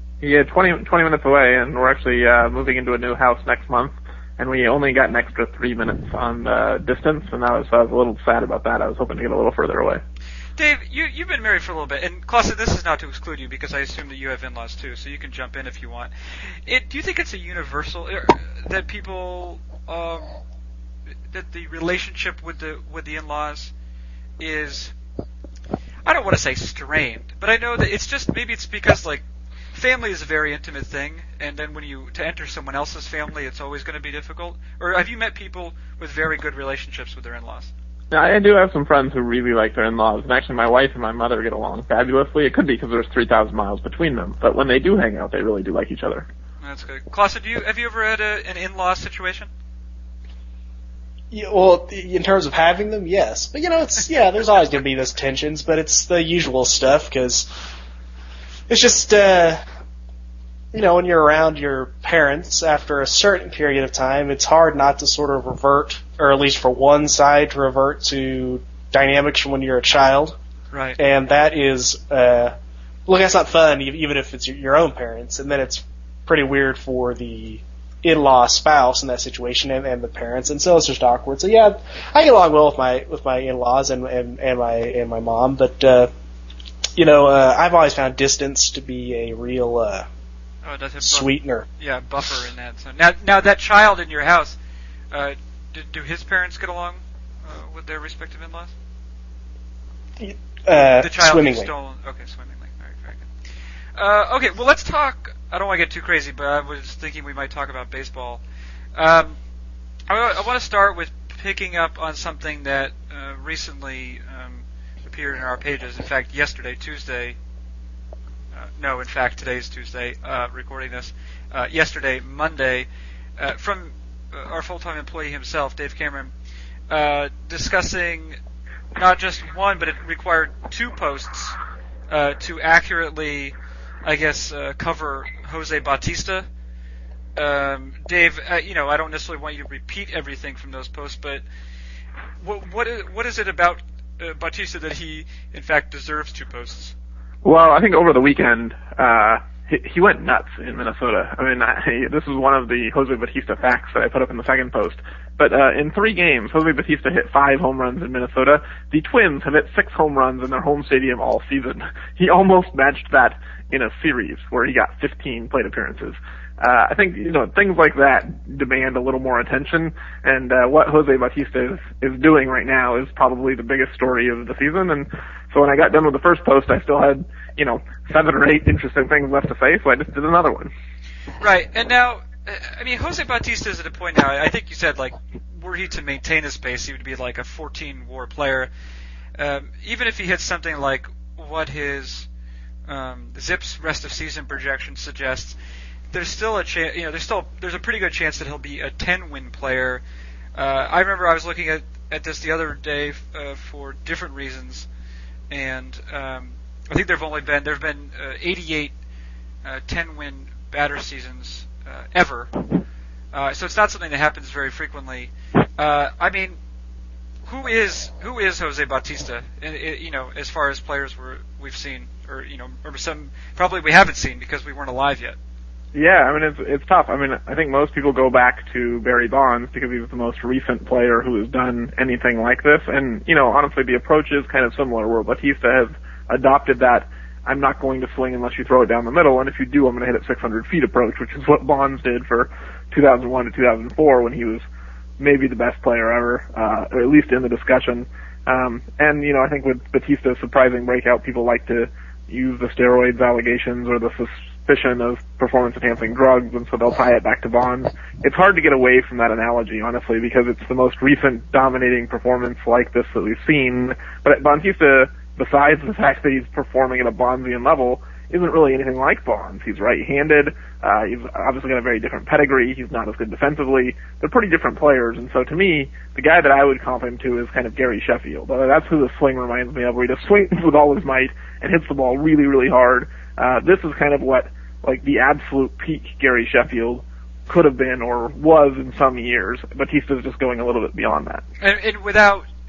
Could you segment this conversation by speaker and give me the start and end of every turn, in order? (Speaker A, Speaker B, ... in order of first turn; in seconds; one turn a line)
Speaker A: 0.2-10.0
Speaker B: 10.6-20.3
Speaker B: 21.3-23.7
Speaker B: 24.4-24.9
Speaker B: 26.1-37.7
Speaker A: 38.1-46.3
Speaker B: 46.6-49.5
Speaker C: 51.3-57.5
Speaker C: 58.7-59.6
Speaker C: 60.7-70.4
Speaker B: 70.7-71.0
Speaker C: 71.0-72.5
Speaker C: 73.1-86.1
Speaker C: 87.0-90.1
Speaker B: 90.6-94.6
Speaker C: 91.0-91.7
Speaker B: 95.1-98.7
Speaker C: 100.2-101.7
Speaker B: 101.0-103.3
Speaker B: 104.0-108.4
Speaker B: 109.0-109.4
Speaker B: 110.1-117.4
Speaker B: 118.5-122.9
Speaker B: 123.4-126.3
Speaker B: 126.9-128.4
Speaker B: 129.0-131.6
Speaker B: 132.1-133.5
Speaker B: 134.1-136.5
Speaker B: 137.4-141.4
Speaker B: 142.4-146.9
Speaker A: 147.4-180.7
Speaker B: 181.4-188.7
Speaker B: 189.4-192.3
Speaker B: 192.9-195.6
Speaker B: 196.1-200.0
Speaker B: 200.6-204.9
Speaker B: 205.5-208.9
Speaker B: 209.6-212.5
Speaker B: 213.3-216.6
Speaker B: 217.5-225.4
Speaker A: 225.9-244.6
Speaker A: 245.2-291.4
Speaker B: 291.6-292.4